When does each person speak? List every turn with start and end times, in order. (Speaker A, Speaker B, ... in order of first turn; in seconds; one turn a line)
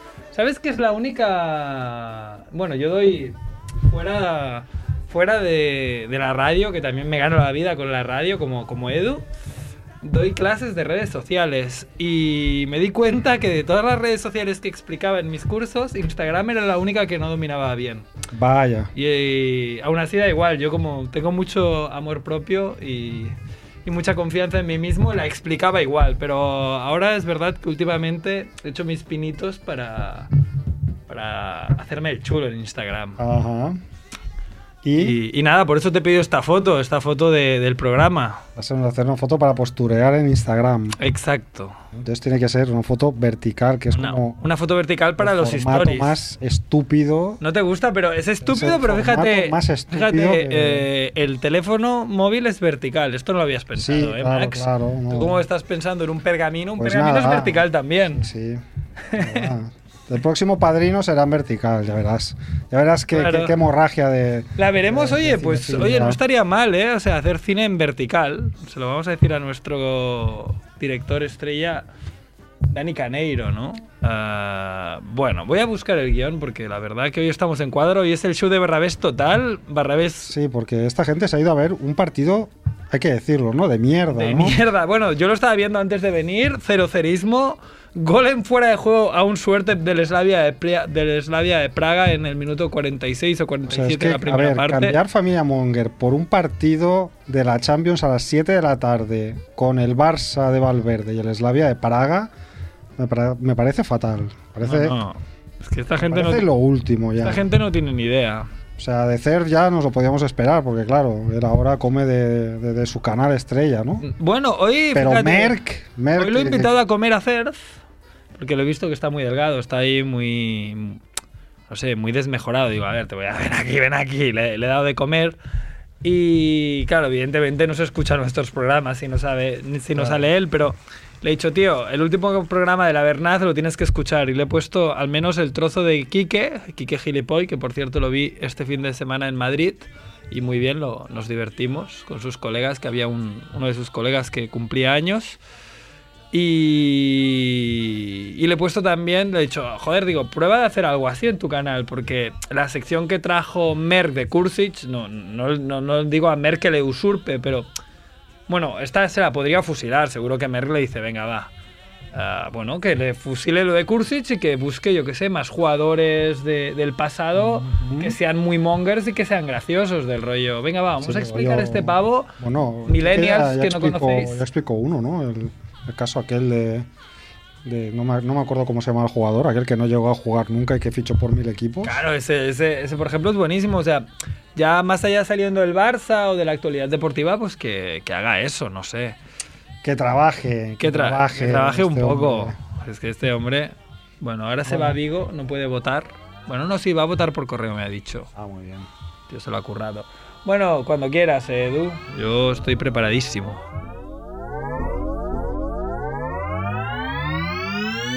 Speaker A: 0.3-9.2
Speaker A: 10.0-18.1
Speaker B: 18.3-18.9
Speaker A: 18.9-30.3
Speaker A: 31.1-33.2
Speaker B: 33.2-33.8
Speaker B: 34.8-35.2
Speaker A: 35.0-38.4
Speaker B: 38.5-41.0
Speaker A: 41.0-41.7
Speaker B: 41.9-44.4
Speaker A: 43.9-46.1
Speaker B: 45.2-47.4
Speaker A: 47.4-58.2
Speaker B: 48.4-50.9
Speaker B: 53.8-55.4
Speaker B: 56.8-58.6
Speaker A: 59.1-59.5
Speaker B: 59.1-66.2
Speaker A: 63.1-63.5
Speaker A: 64.6-71.8
Speaker A: 72.7-80.3
Speaker B: 80.3-84.6
Speaker A: 84.2-95.0
Speaker B: 93.7-102.3
Speaker B: 103.0-105.0
Speaker A: 104.6-106.5
Speaker B: 106.0-107.5
Speaker A: 107.2-108.5
Speaker B: 108.8-114.0
Speaker A: 114.0-115.6
Speaker B: 114.9-116.7
Speaker A: 116.1-117.7
Speaker A: 118.3-121.0
Speaker A: 121.7-125.4
Speaker A: 126.0-145.4
Speaker B: 129.9-130.2
Speaker A: 146.3-157.7
Speaker A: 158.5-161.5
Speaker A: 162.1-172.3
Speaker B: 167.3-168.2
Speaker B: 171.0-176.9
Speaker A: 172.8-174.4
Speaker B: 177.6-182.0
Speaker A: 181.8-189.2
Speaker B: 189.8-192.6
Speaker A: 190.8-198.3
Speaker B: 194.7-195.0
Speaker B: 198.3-198.9
Speaker A: 199.3-203.6